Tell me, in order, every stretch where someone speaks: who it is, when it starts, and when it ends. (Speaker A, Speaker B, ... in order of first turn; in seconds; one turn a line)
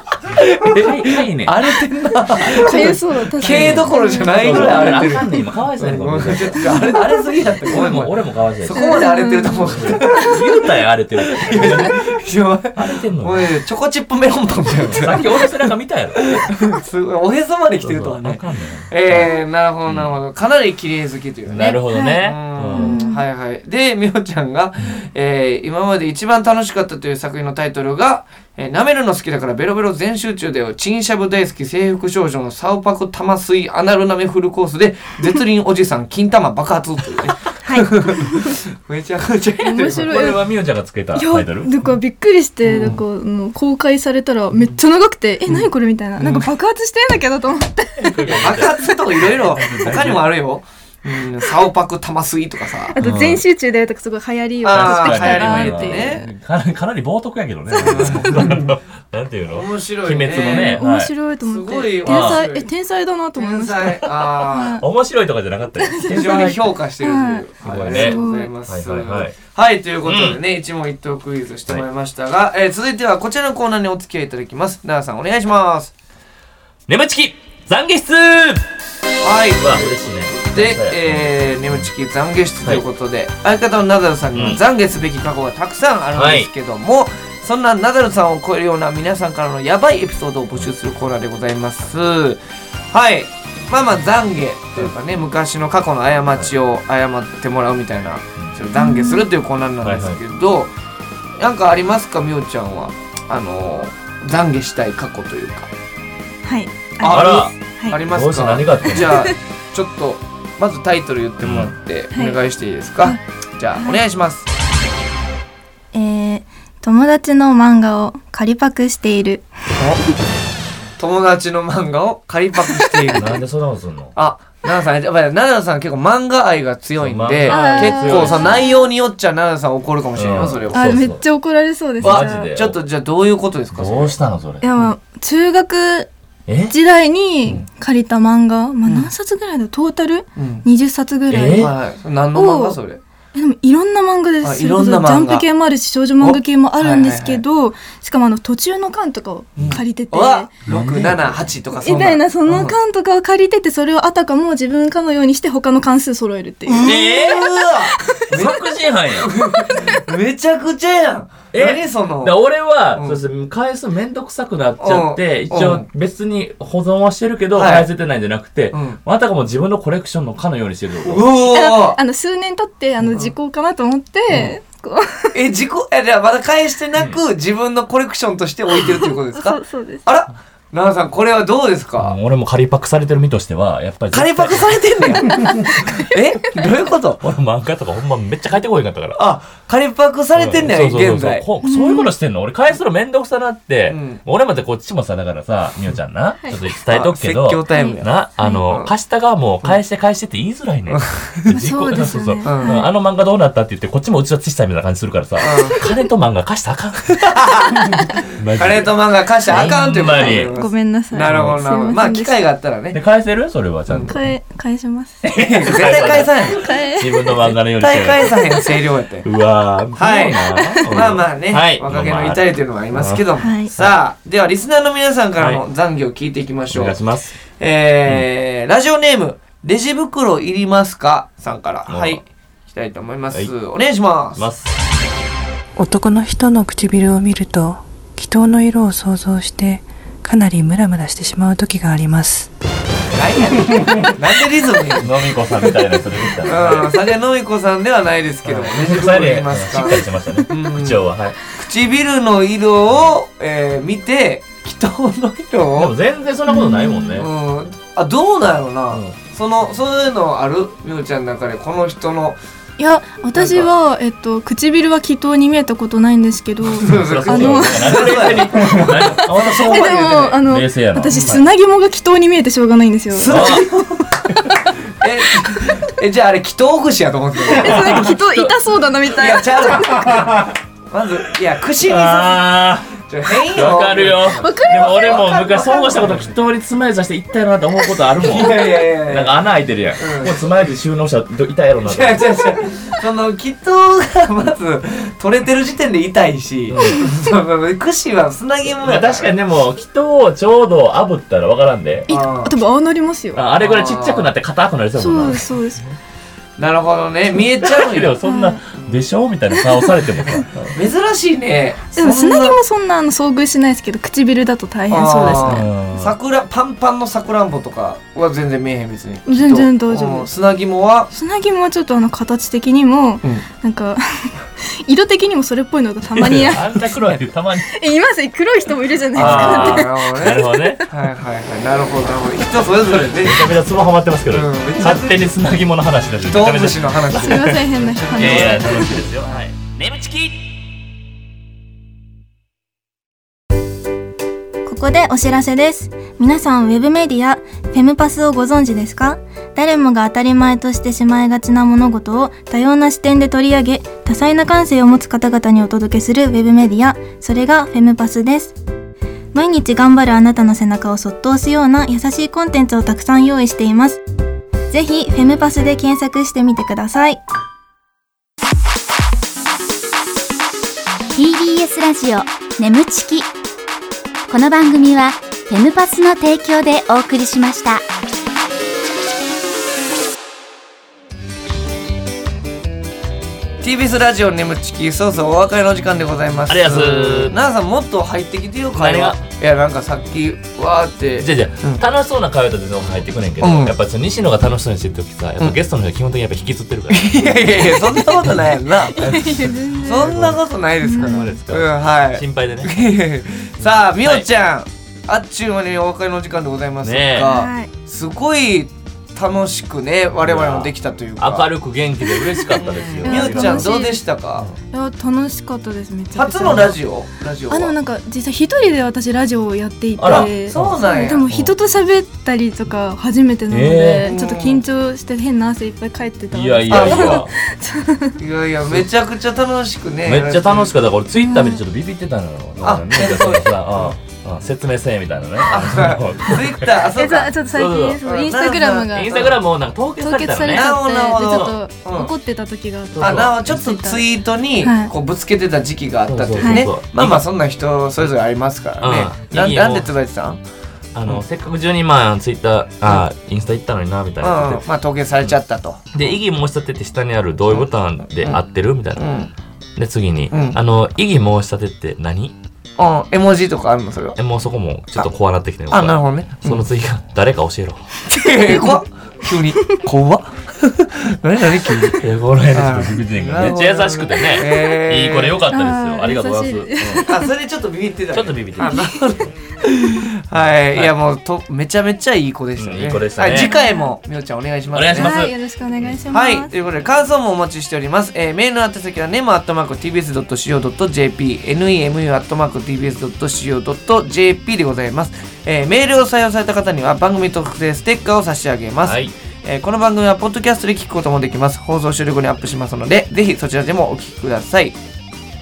Speaker A: 0.3-10.6
Speaker B: 0.6-1.6
Speaker C: 2.5-5.4
Speaker B: 3.4-6.9
Speaker C: 6.6-7.2
Speaker B: 7.6-9.0
Speaker C: 8.7-10.5
Speaker B: 9.7-12.0
Speaker A: 11.2-15.5
Speaker B: 12.7-13.5
Speaker B: 14.7-16.3
Speaker A: 16.2-40.3
Speaker B: 17.8-19.3
Speaker B: 19.9-20.1
Speaker B: 21.5-23.0
Speaker C: 21.6-23.2
Speaker C: 37.6-38.6
Speaker C: 39.6-40.4
Speaker B: 40.1-41.8
Speaker C: 41.1-48.8
Speaker A: 42.6-43.0
Speaker A: 46.2-46.5
Speaker B: 48.0-50.3
Speaker A: 48.3-53.0
Speaker C: 52.9-56.3
Speaker B: 53.0-53.4
Speaker A: 54.6-56.3
Speaker B: 54.7-61.1
Speaker A: 57.8-58.8
Speaker A: 59.5-60.8
Speaker C: 60.3-64.8
Speaker A: 61.4-62.7
Speaker B: 62.1-62.4
Speaker A: 63.4-64.8
Speaker B: 64.8-66.7
Speaker C: 65.8-68.5
Speaker A: 66.1-75.9
Speaker B: 67.6-69.4
Speaker B: 70.0-70.4
Speaker B: 76.9-78.7
Speaker A: 79.2-92.4
Speaker B: 79.6-81.9
Speaker B: 84.3-84.6
Speaker B: 86.2-86.5
Speaker A: 92.9-100.7
Speaker C: 98.8-99.3
Speaker B: 99.8-100.2
Speaker A: 101.4-105.7
Speaker C: 106.5-108.0
Speaker A: 107.0-114.5
Speaker B: 107.1-109.3
Speaker C: 108.9-109.3
Speaker B: 111.4-111.7
Speaker C: 115.9-119.5
Speaker A: 121.0-123.3
Speaker B: 123.1-124.2
Speaker A: 124.2-130.9
Speaker B: 127.0-128.6
Speaker C: 127.5-128.9
Speaker B: 130.2-131.2
Speaker C: 130.7-132.5
Speaker B: 132.0-132.8
Speaker A: 132.0-134.2
Speaker B: 133.7-134.7
Speaker C: 134.6-136.1
Speaker B: 136.5-136.8
Speaker C: 136.7-141.8
Speaker A: 138.9-139.1
Speaker A: 140.4-140.7
Speaker B: 141.3-141.7
Speaker A: 141.6-143.0
Speaker C: 142.3-142.8
Speaker C: 143.3-150.5
Speaker A: 144.4-145.4
Speaker A: 146.2-147.4
Speaker A: 149.6-152.8
Speaker B: 150.7-151.5
Speaker C: 151.8-158.2
Speaker A: 156.7-162.4
Speaker B: 156.8-157.5
Speaker B: 158.3-159.3
Speaker C: 159.7-160.0
Speaker B: 161.5-171.3
Speaker A: 162.9-163.2
Speaker A: 164.8-165.9
Speaker A: 167.6-167.9
Speaker A: 168.7-169.0
Speaker A: 171.1-172.0
Speaker C: 171.4-175.4
Speaker A: 173.0-173.3
Speaker A: 175.3-182.2
Speaker C: 178.9-180.1
Speaker B: 182.0-185.2
Speaker A: 184.1-187.2
Speaker C: 185.3-185.6
Speaker B: 187.2-189.2
Speaker A: 189.2-191.4
Speaker B: 190.3-207.4
Speaker C: 191.6-192.1
Speaker A: 193.9-194.2
Speaker A: 196.9-198.1
Speaker C: 197.7-198.6
Speaker A: 200.9-201.6
Speaker C: 201.5-202.9
Speaker A: 202.4-202.8
Speaker A: 205.4-205.8
Speaker A: 207.2-213.0
Speaker B: 208.3-210.5
Speaker C: 210.1-212.4
Speaker B: 211.2-211.6
Speaker B: 212.9-214.3
Speaker A: 213.9-214.2
Speaker C: 214.1-215.2
Speaker B: 215.2-218.6
Speaker A: 215.3-216.7
Speaker C: 216.5-217.4
Speaker A: 217.8-219.3
Speaker B: 219.2-223.2
Speaker A: 219.9-227.0
Speaker C: 223.4-223.7
Speaker B: 226.7-227.4
Speaker A: 227.6-234.5
Speaker B: 231.9-232.2
Speaker B: 234.4-234.7
Speaker D: 235.8-242.5
Speaker A: 243.1-245.1
Speaker B: 244.9-247.0
Speaker A: 246.4-255.9
Speaker B: 248.4-251.4
Speaker B: 255.8-257.3
Speaker C: 256.5-257.2
Speaker A: 257.2-262.4
Speaker B: 258.9-259.2
Speaker C: 262.8-273.7
Speaker A: 263.4-263.7
Speaker B: 266.8-271.4
Speaker A: 266.8-270.3
Speaker A: 271.1-271.4
Speaker A: 273.1-274.1
Speaker B: 273.3-273.6
Speaker A: 275.0-278.1
Speaker C: 277.5-280.2
Speaker B: 277.6-278.6
Speaker A: 279.1-284.6
Speaker B: 281.8-292.2
Speaker C: 284.4-286.2
Speaker A: 288.2-289.4
Speaker A: 290.0-290.5
Speaker A: 291.8-299.3
Speaker B: 296.7-297.1
Speaker B: 298.6-302.1
Speaker C: 302.1-303.4
Speaker A: 302.1-302.6
Speaker B: 303.4-305.5
Speaker A: 303.6-304.3
Speaker C: 305.0-305.9
Speaker A: 306.6-308.1
Speaker B: 307.6-310.7
Speaker C: 308.2-308.6
Speaker A: 310.7-312.6
Speaker C: 312.0-315.7
Speaker A: 314.9-321.1
Speaker B: 315.1-316.1
Speaker C: 319.3-320.3
Speaker C: 321.1-327.0
Speaker B: 326.1-327.8
Speaker C: 327.7-330.9
Speaker A: 329.1-333.6
Speaker B: 329.2-330.8
Speaker B: 332.9-340.5
Speaker A: 334.3-335.2
Speaker A: 336.3-338.9
Speaker C: 337.1-339.0
Speaker C: 344.6-358.6
Speaker C: 359.3-364.0
Speaker C: 364.7-367.2
Speaker E: 371.1-373.3
Speaker E: 374.3-377.8
Speaker A: 383.6-391.8
Speaker B: 386.5-387.4
Speaker B: 388.8-389.2
Speaker B: 391.2-398.4
Speaker A: 393.4-393.7
Speaker A: 396.9-411.5
Speaker C: 398.9-400.2
Speaker B: 399.0-399.5
Speaker B: 400.1-400.4
Speaker C: 400.8-401.3
Speaker B: 401.0-402.9
Speaker B: 403.6-404.3
Speaker B: 406.8-407.3
Speaker C: 407.3-407.7
Speaker B: 410.2-413.7
Speaker A: 412.6-414.5
Speaker C: 413.0-414.0
Speaker C: 414.7-416.7
Speaker A: 416.1-417.7
Speaker C: 417.5-428.2
Speaker B: 420.0-421.5
Speaker A: 420.1-421.3
Speaker B: 423.5-424.1
Speaker A: 424.0-424.6
Speaker B: 426.3-427.3
Speaker A: 426.7-427.3
Speaker A: 428.2-430.7
Speaker B: 430.1-436.7
Speaker C: 431.2-431.6
Speaker A: 432.6-433.9
Speaker A: 435.4-437.4
Speaker C: 437.0-439.2
Speaker B: 437.5-438.0
Speaker A: 438.0-439.4
Speaker B: 438.9-440.7
Speaker C: 440.0-444.1
Speaker A: 440.5-442.1
Speaker B: 442.9-443.6
Speaker A: 443.0-450.4
Speaker C: 444.6-444.9
Speaker B: 446.1-447.2
Speaker C: 446.4-446.7
Speaker B: 448.8-449.9
Speaker B: 450.9-454.6
Speaker A: 454.2-456.1
Speaker B: 455.9-459.1
Speaker A: 459.0-459.3
Speaker B: 459.8-462.4
Speaker A: 460.3-460.6
Speaker A: 462.8-464.2
Speaker B: 464.2-467.9
Speaker A: 465.7-466.6
Speaker A: 468.1-475.4
Speaker B: 472.0-477.1
Speaker C: 475.5-477.3
Speaker A: 477.1-485.2
Speaker B: 478.1-478.9
Speaker C: 478.6-479.0
Speaker B: 480.3-480.9
Speaker B: 482.6-483.5
Speaker C: 483.3-483.9
Speaker B: 484.7-485.9
Speaker C: 485.0-486.5
Speaker A: 486.1-504.8
Speaker B: 498.9-499.1